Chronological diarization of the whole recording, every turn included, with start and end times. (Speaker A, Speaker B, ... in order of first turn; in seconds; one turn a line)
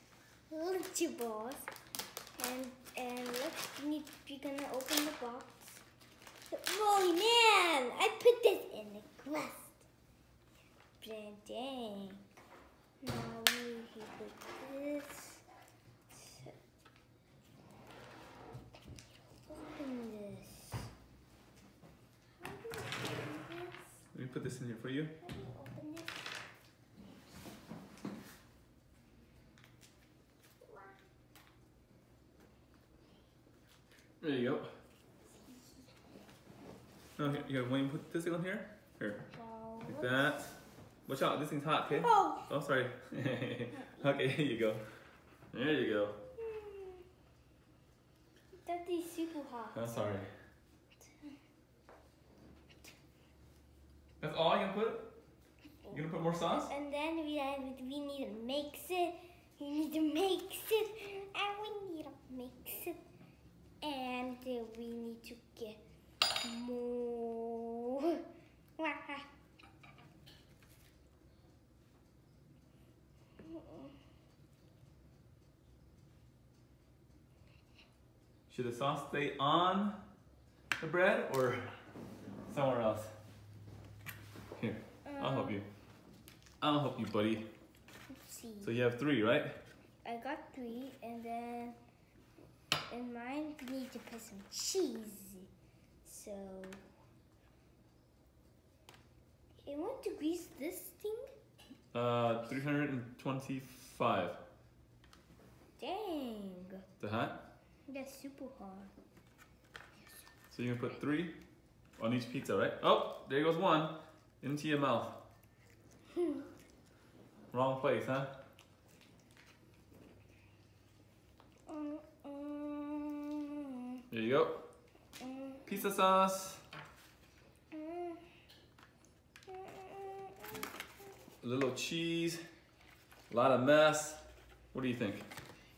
Speaker A: 0.5-1.7
Speaker A: 2.4-5.8
Speaker A: 6.5-9.8
Speaker A: 11.0-12.2
Speaker A: 13.0-15.4
Speaker A: 16.1-16.6
Speaker A: 19.4-20.9
Speaker A: 22.3-23.9
Speaker B: 24.1-25.1
Speaker A: 25.2-26.3
Speaker A: 30.6-31.0
Speaker B: 34.2-34.7
Speaker B: 37.2-39.3
Speaker A: 39.3-40.2
Speaker B: 39.9-40.5
Speaker B: 41.1-44.8
Speaker A: 41.9-42.5
Speaker A: 43.7-44.1
Speaker B: 45.5-46.2
Speaker A: 46.4-47.0
Speaker A: 48.6-50.1
Speaker B: 49.7-50.3
Speaker B: 54.2-55.1
Speaker B: 55.9-56.7
Speaker A: 56.5-63.0
Speaker A: 63.8-68.2
Speaker A: 68.8-69.3
Speaker B: 78.5-80.0
Speaker B: 80.8-81.7
Speaker B: 82.5-83.1
Speaker B: 84.6-85.7
Speaker A: 85.0-85.6
Speaker B: 86.6-87.5
Speaker A: 88.1-88.7
Speaker B: 88.6-89.6
Speaker A: 90.0-91.8
Speaker A: 92.9-95.5
Speaker A: 96.0-96.8
Speaker A: 99.6-101.3
Speaker B: 101.9-104.4
Speaker A: 105.8-106.8
Speaker B: 107.0-107.4
Speaker A: 107.9-108.9
Speaker B: 110.5-111.4
Speaker B: 112.0-115.2
Speaker B: 117.5-118.3
Speaker A: 121.7-124.0
Speaker B: 124.1-124.6
Speaker A: 125.2-125.7
Speaker B: 125.7-126.6
Speaker A: 127.7-128.2
Speaker A: 129.5-130.6
Speaker B: 131.4-132.4
Speaker B: 133.3-135.3